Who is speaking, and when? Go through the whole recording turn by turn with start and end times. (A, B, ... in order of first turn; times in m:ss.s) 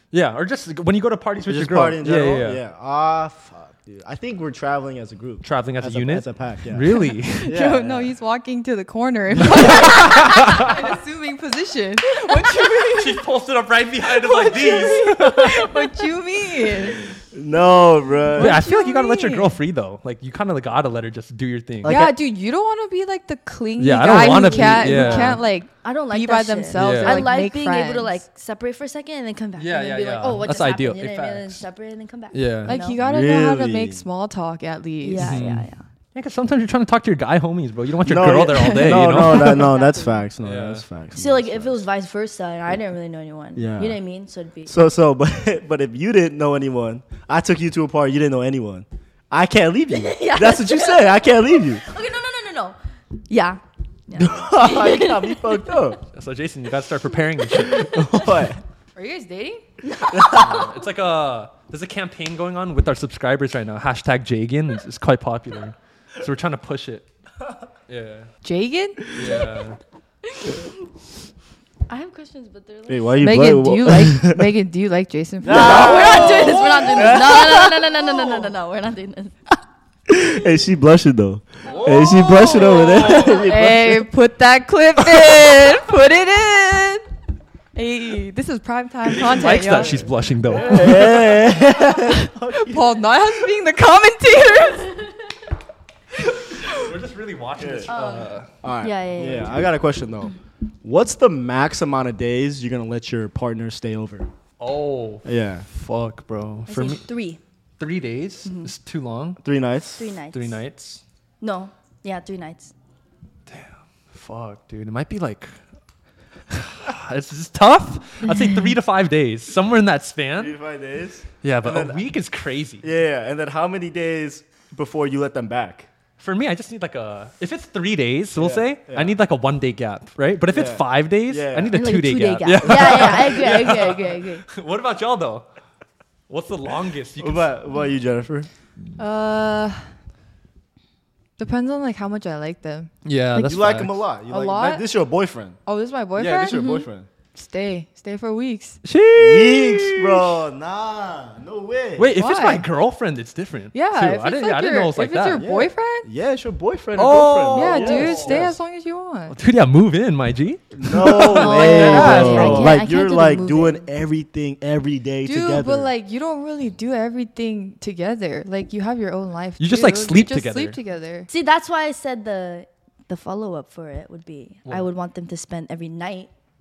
0:00.1-0:02.6 A
0:01.5-0:08.1 B
0:05.4-0:07.5 A
0:07.4-0:13.2 C
0:09.4-0:10.7 A
0:12.8-0:15.8 A
0:14.0-0:17.1 C
0:17.3-0:18.6 B
0:18.3-0:19.6 C
0:18.4-0:22.0 A
0:21.8-0:22.1 B
0:21.8-0:28.2 C
0:23.8-0:25.4 A
0:24.5-0:24.9 B
0:24.7-0:33.0 D
0:26.7-0:27.4 A
0:29.6-0:31.6 A
0:32.3-0:32.8 A
0:32.6-0:35.4 C
0:33.0-0:34.0 B
0:35.0-0:35.8 D
0:35.2-0:39.6 A
0:38.0-0:41.8 B
0:39.2-0:40.2 D
0:40.4-0:40.8 A
0:41.1-0:44.7 D
0:43.5-0:44.0 B
0:44.6-0:51.8 B
0:49.9-0:52.8 D
0:53.3-0:55.8 D
0:54.2-0:56.0 B
0:56.1-0:57.9 A
0:57.7-0:58.6 B
0:57.7-0:58.5 D
0:58.9-0:59.6 C
0:59.8-1:00.7 D
1:00.1-1:00.4 B
1:00.3-1:07.0 A
1:07.9-1:08.3 A
1:08.4-1:09.0 C
1:09.1-1:09.8 A
1:10.3-1:10.7 D
1:11.9-1:13.2 D
1:12.9-1:14.5 B
1:13.2-1:17.3 C
1:15.4-1:18.0 B
1:15.5-1:19.3 D
1:20.1-1:24.0 B
1:21.6-1:23.5 A
1:22.8-1:27.0 C
1:27.7-1:30.0 C
1:29.0-1:31.1 A
1:30.5-1:33.1 B
1:32.7-1:35.0 C
1:36.6-1:38.5 A
1:37.6-1:37.9 B
1:37.9-1:39.7 D
1:38.6-1:44.3 B
1:44.6-1:47.0 A
1:45.2-1:45.6 B
1:46.7-1:47.4 D
1:47.8-1:49.4 A
1:48.4-1:48.7 D
1:49.4-1:50.1 B
1:50.0-1:50.6 D
1:50.3-1:51.0 A
1:51.4-1:52.7 D
1:53.5-1:55.5 A
1:56.5-2:00.5 A
2:00.4-2:02.0 B
2:01.4-2:02.8 A
2:02.8-2:05.9 B
2:06.2-2:15.4 A
2:08.4-2:09.1 B
2:10.5-2:11.8 B
2:11.7-2:14.4 D
2:16.3-2:17.5 A
2:17.2-2:18.5 B
2:19.0-2:19.9 C
2:21.4-2:22.9 C
2:23.0-2:24.0 A
2:23.3-2:23.6 D
2:23.4-2:25.6 B
2:24.3-2:24.8 C
2:25.6-2:26.7 C
2:26.2-2:27.1 B
2:26.5-2:26.8 D
2:27.3-2:28.8 C
2:28.8-2:30.3 A
2:29.1-2:32.1 B
2:32.0-2:35.4 A
2:32.2-2:32.6 C
2:33.7-2:36.1 C
2:35.4-2:38.5 B
2:37.0-2:38.5 A
2:37.5-2:39.3 C
2:39.3-2:42.7 A
2:40.7-2:45.9 B
2:41.1-2:43.9 D
2:45.2-2:51.3 C
2:49.6-2:50.8 A
2:51.3-2:56.3 D